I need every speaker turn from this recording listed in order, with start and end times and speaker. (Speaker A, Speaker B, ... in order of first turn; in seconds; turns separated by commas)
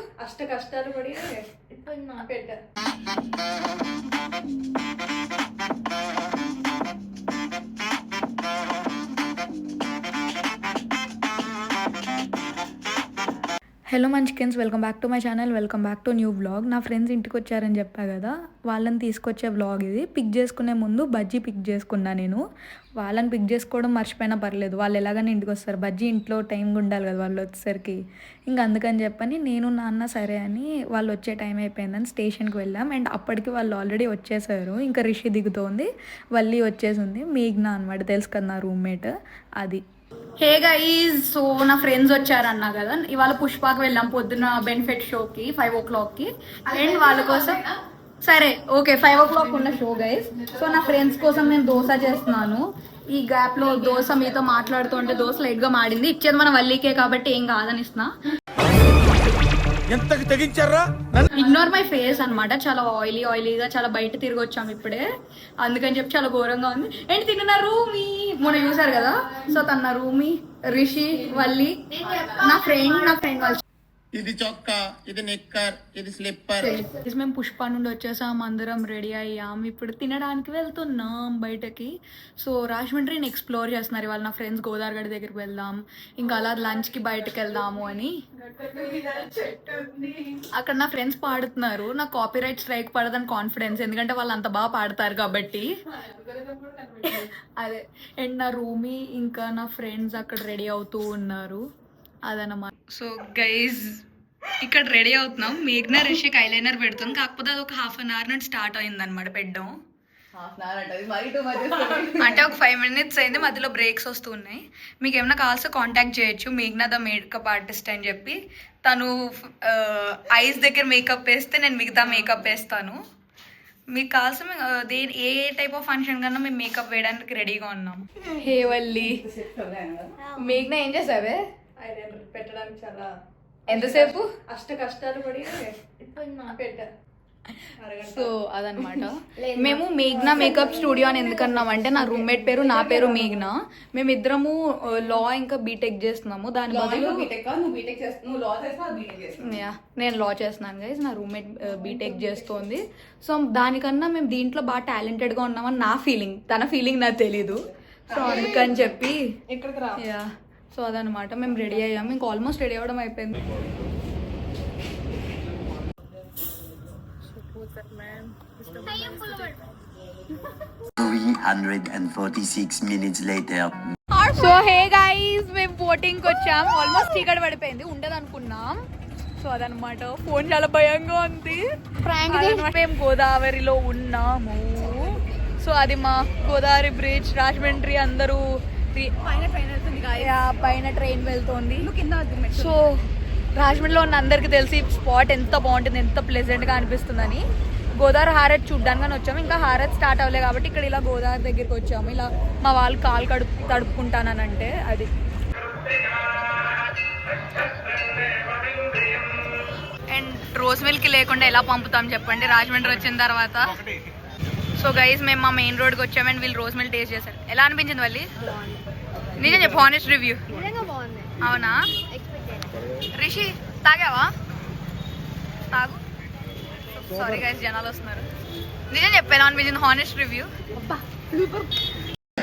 Speaker A: 1.6-2.2, Speaker B: 13.9-22.4, Speaker B: 23.0-39.8, Speaker B: 40.4-47.6, Speaker B: 48.2-58.1, Speaker C: 60.3-60.8, Speaker B: 61.3-65.1, Speaker B: 65.6-73.6, Speaker A: 72.0-72.6, Speaker D: 74.1-76.8, Speaker B: 76.6-88.2, Speaker C: 88.8-89.1, Speaker C: 89.7-90.0, Speaker B: 90.5-95.7, Speaker A: 96.0-97.0, Speaker B: 97.0-101.6, Speaker B: 102.2-104.0, Speaker B: 104.6-109.7, Speaker C: 110.3-111.7, Speaker B: 112.2-123.0, Speaker B: 123.9-129.2, Speaker C: 129.3-130.1, Speaker A: 130.2-130.6, Speaker B: 130.3-133.1, Speaker B: 133.7-134.5, Speaker A: 136.0-136.6, Speaker B: 136.5-136.8, Speaker B: 138.0-147.3, Speaker A: 140.3-140.8, Speaker C: 146.8-149.3, Speaker B: 149.4-159.2, Speaker B: 160.0-163.4, Speaker A: 167.8-169.5, Speaker B: 168.9-169.5, Speaker E: 171.0-173.7, Speaker B: 174.1-178.8, Speaker B: 179.4-189.1, Speaker A: 182.1-182.7, Speaker C: 189.4-190.2, Speaker B: 190.2-191.9, Speaker C: 192.0-192.7, Speaker B: 192.5-197.4, Speaker B: 198.0-205.1, Speaker B: 210.1-213.8, Speaker B: 214.8-218.3, Speaker A: 218.4-218.8, Speaker B: 219.4-220.5, Speaker A: 220.5-221.4, Speaker B: 221.4-221.8, Speaker A: 222.1-222.8, Speaker B: 223.1-224.3, Speaker B: 225.7-226.0, Speaker B: 226.9-228.3, Speaker B: 228.9-230.5, Speaker A: 230.8-231.7